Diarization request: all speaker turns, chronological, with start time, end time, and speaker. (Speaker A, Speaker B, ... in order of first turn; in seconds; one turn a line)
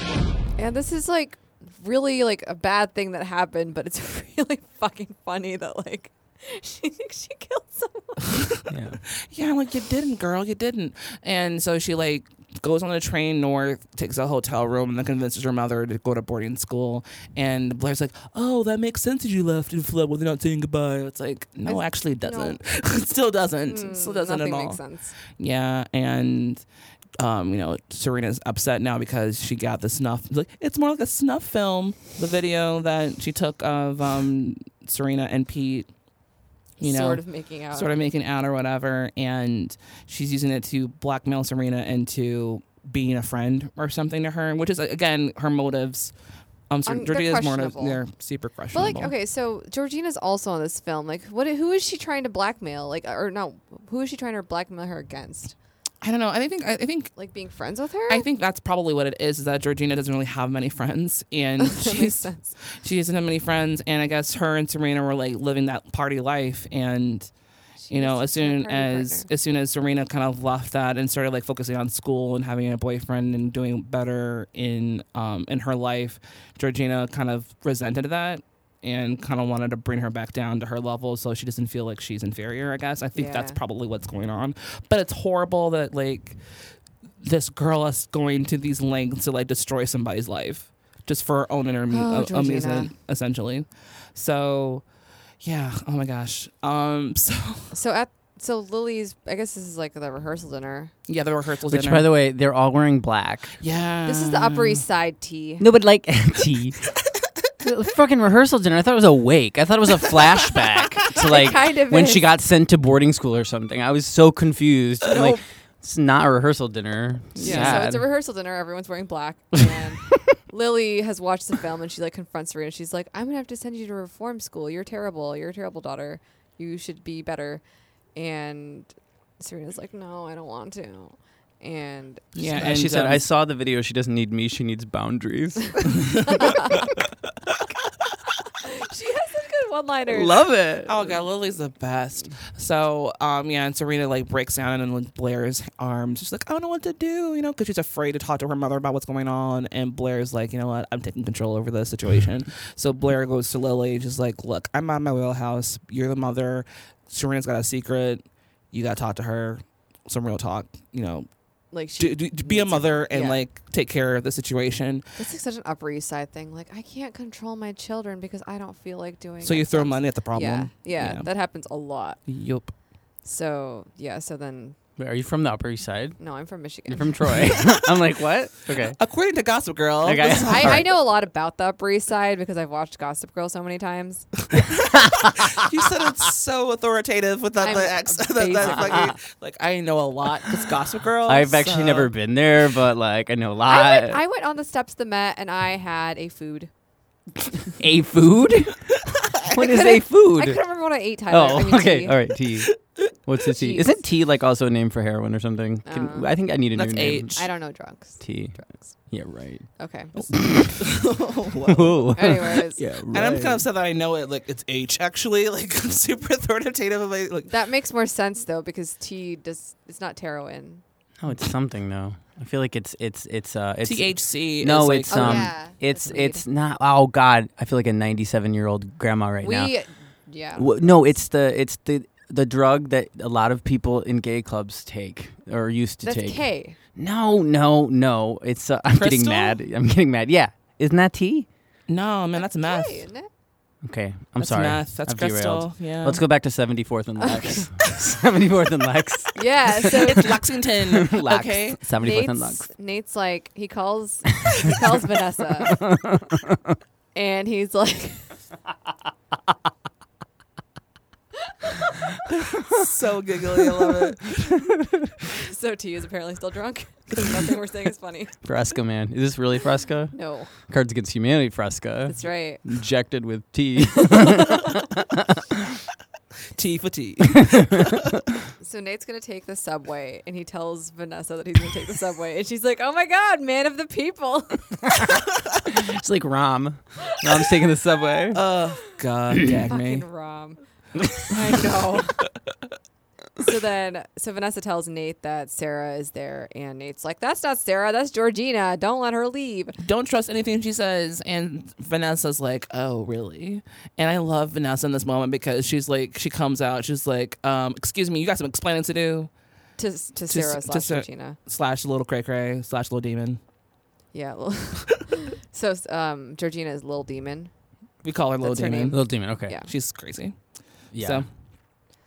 Speaker A: 0.6-8.3
Speaker B: 8.7-9.0
Speaker C: 9.3-26.6
Speaker A: 21.6-22.6
Speaker A: 23.6-25.1
Speaker C: 27.2-35.9
Speaker A: 36.8-37.9
Speaker C: 36.8-46.1
Speaker C: 46.7-49.1
Speaker A: 46.9-48.0
Speaker A: 48.7-55.5
Speaker C: 56.0-57.1
Speaker A: 57.1-58.2
Speaker C: 58.1-67.3
Speaker A: 61.6-62.5
Speaker A: 67.8-69.3
Speaker C: 67.9-86.4
Speaker A: 83.1-83.6
Speaker C: 87.2-94.8
Speaker A: 91.9-92.9
Speaker C: 95.4-97.7
Speaker A: 97.7-100.9
Speaker C: 101.1-102.0
Speaker B: 101.7-103.5
Speaker C: 103.6-104.8
Speaker A: 104.0-105.6
Speaker B: 105.6-106.8
Speaker B: 107.6-118.0
Speaker A: 111.2-112.2
Speaker A: 115.1-115.4
Speaker C: 117.3-117.8
Speaker A: 117.4-127.6
Speaker A: 128.1-132.2
Speaker C: 132.3-133.2
Speaker B: 132.5-136.7
Speaker A: 138.6-140.4
Speaker B: 140.1-141.1
Speaker C: 140.8-161.3
Speaker A: 161.7-163.4
Speaker C: 162.0-165.0
Speaker A: 165.2-172.2
Speaker C: 169.4-171.3
Speaker C: 172.3-172.7
Speaker A: 173.2-174.8
Speaker B: 175.0-176.2
Speaker A: 176.2-177.3
Speaker B: 176.9-179.0
Speaker C: 179.0-180.9
Speaker B: 180.0-180.9
Speaker A: 180.4-184.3
Speaker C: 184.5-192.1
Speaker A: 187.6-189.2
Speaker B: 188.6-189.1
Speaker B: 191.3-194.2
Speaker A: 193.7-196.7
Speaker B: 197.8-198.9
Speaker B: 199.4-200.6
Speaker A: 199.5-202.2
Speaker B: 201.3-207.4
Speaker A: 203.5-204.0
Speaker A: 205.8-206.3
Speaker C: 206.7-207.4
Speaker A: 207.3-208.9
Speaker B: 208.2-210.9
Speaker A: 209.8-210.2
Speaker C: 210.7-212.2
Speaker B: 211.7-213.7
Speaker A: 212.2-212.8
Speaker C: 213.1-217.5
Speaker A: 217.5-220.8
Speaker B: 221.2-229.7
Speaker C: 223.8-225.5
Speaker A: 225.1-226.4
Speaker A: 229.4-230.8
Speaker B: 230.6-241.5
Speaker A: 236.0-236.8
Speaker C: 238.9-239.6
Speaker C: 241.9-243.1
Speaker A: 242.4-243.3
Speaker B: 243.8-249.9
Speaker C: 244.4-246.2
Speaker A: 247.2-247.6
Speaker A: 249.3-250.3
Speaker C: 250.0-251.8
Speaker B: 251.0-252.7
Speaker A: 252.0-255.8
Speaker B: 255.7-256.8
Speaker A: 257.1-258.3
Speaker C: 262.3-264.5
Speaker A: 265.4-268.3
Speaker B: 268.4-275.4
Speaker A: 270.1-270.5
Speaker A: 272.1-272.6
Speaker A: 274.1-274.7
Speaker C: 276.6-278.1
Speaker B: 277.5-277.8
Speaker A: 278.6-284.6
Speaker B: 285.6-288.4
Speaker C: 288.3-290.1
Speaker A: 289.7-290.6
Speaker A: 291.1-292.2
Speaker A: 293.4-299.8
Speaker C: 299.8-309.3
Speaker A: 309.8-311.4
Speaker C: 310.3-313.4
Speaker A: 314.1-317.5
Speaker C: 318.0-319.0
Speaker A: 318.4-319.7
Speaker B: 318.7-319.6
Speaker C: 319.6-321.2
Speaker B: 320.9-321.2